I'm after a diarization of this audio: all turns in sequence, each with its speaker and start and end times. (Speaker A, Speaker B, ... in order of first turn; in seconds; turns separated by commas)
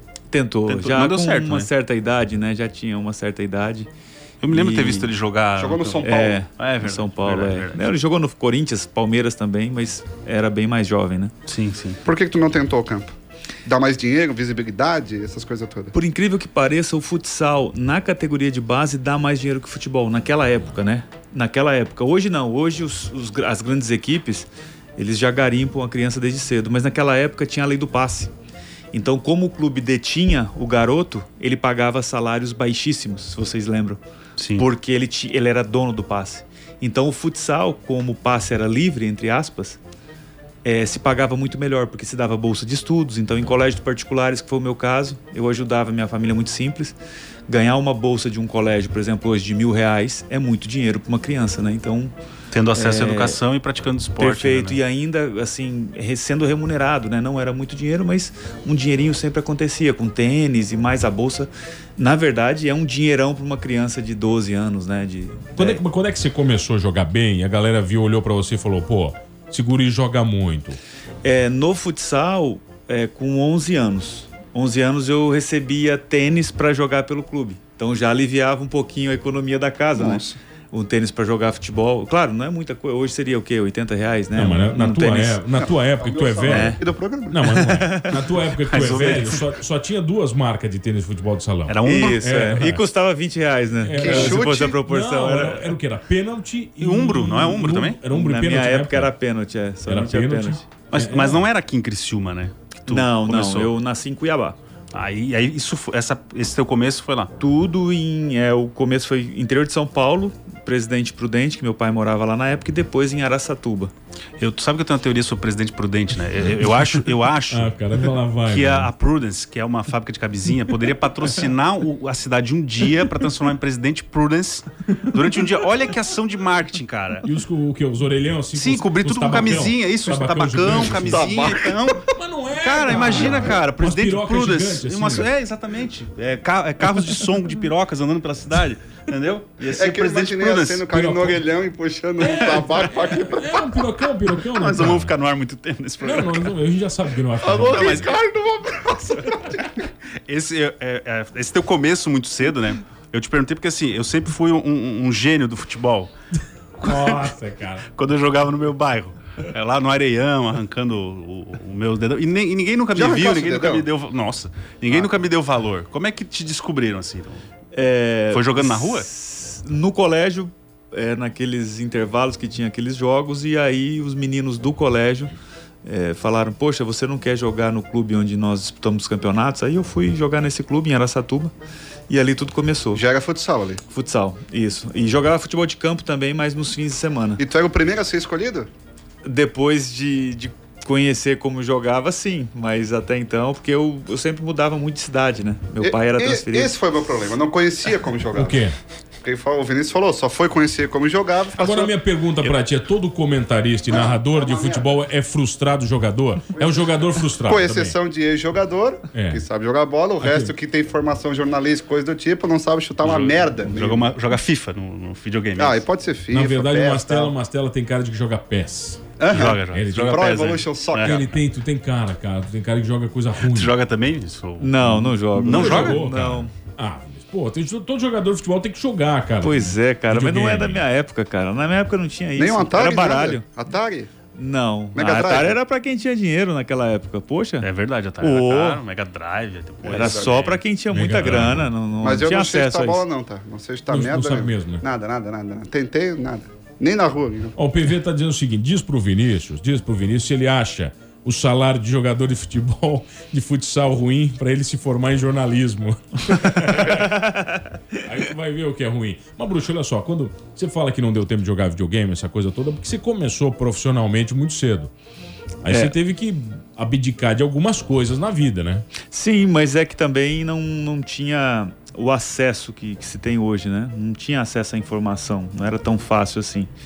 Speaker A: 0.3-3.9, Speaker B: 0.7-1.7, Speaker B: 4.4-7.9, Speaker A: 4.5-5.1, Speaker C: 5.6-6.4, Speaker A: 6.0-11.3, Speaker B: 11.5-12.0, Speaker C: 12.1-13.1, Speaker C: 13.7-15.9, Speaker A: 15.9-28.3, Speaker A: 28.9-34.0, Speaker B: 34.4-34.7, Speaker A: 34.6-39.8, Speaker A: 40.6-52.1, Speaker B: 52.5-54.8, Speaker A: 52.7-53.4, Speaker A: 54.2-65.8, Speaker D: 65.6-70.8, Speaker A: 71.2-85.4, Speaker C: 80.0-80.3, Speaker D: 84.3-92.8, Speaker C: 85.6-87.5, Speaker A: 86.5-86.8, Speaker A: 87.3-88.2, Speaker B: 88.7-89.4, Speaker B: 91.7-92.2, Speaker A: 91.8-95.8, Speaker D: 93.8-99.1, Speaker C: 94.0-94.8, Speaker B: 96.8-98.0, Speaker A: 98.1-100.6, Speaker D: 99.9-101.4, Speaker B: 100.9-103.7, Speaker A: 102.9-104.6, Speaker B: 104.9-107.3, Speaker A: 107.4-113.9, Speaker B: 114.4-117.7, Speaker D: 117.5-118.9, Speaker B: 118.5-127.2, Speaker D: 127.2-131.3, Speaker B: 128.6-132.0, Speaker C: 130.8-132.1, Speaker D: 132.1-135.3, Speaker B: 132.6-140.9, Speaker C: 139.8-143.8, Speaker D: 140.9-141.4, Speaker D: 142.2-145.1, Speaker B: 144.4-146.5, Speaker D: 146.0-148.1, Speaker C: 147.4-149.8, Speaker B: 147.7-148.2, Speaker B: 150.3-156.1, Speaker B: 156.8-157.2, Speaker D: 156.8-157.9, Speaker B: 157.9-167.4, Speaker C: 162.9-163.9, Speaker A: 167.7-181.5, Speaker B: 168.3-169.1, Speaker A: 182.1-183.0, Speaker C: 182.9-183.8, Speaker A: 183.9-187.4, Speaker C: 187.4-188.7, Speaker A: 189.2-196.8, Speaker C: 195.8-198.6, Speaker D: 198.4-198.8, Speaker C: 199.2-202.6, Speaker D: 201.6-207.9, Speaker C: 203.9-204.9, Speaker C: 206.6-206.9, Speaker C: 207.4-214.1, Speaker D: 209.1-209.4, Speaker D: 210.2-210.5, Speaker B: 213.0-215.8, Speaker C: 215.6-217.3, Speaker D: 216.3-219.0, Speaker C: 219.2-221.4, Speaker B: 219.3-221.3, Speaker D: 219.7-220.2, Speaker D: 221.0-223.7, Speaker B: 223.4-226.0, Speaker A: 224.6-226.5, Speaker D: 225.5-230.8, Speaker C: 225.5-225.9, Speaker A: 229.4-233.4, Speaker C: 232.4-234.1, Speaker A: 234.3-237.7, Speaker C: 234.9-235.6, Speaker B: 237.6-240.6, Speaker A: 238.2-238.8, Speaker C: 239.8-240.3, Speaker A: 239.8-243.0, Speaker D: 240.9-241.7, Speaker C: 242.0-247.6, Speaker D: 243.9-244.8, Speaker D: 247.6-264.9, Speaker D: 265.6-268.9, Speaker A: 265.7-265.9, Speaker A: 269.0-276.7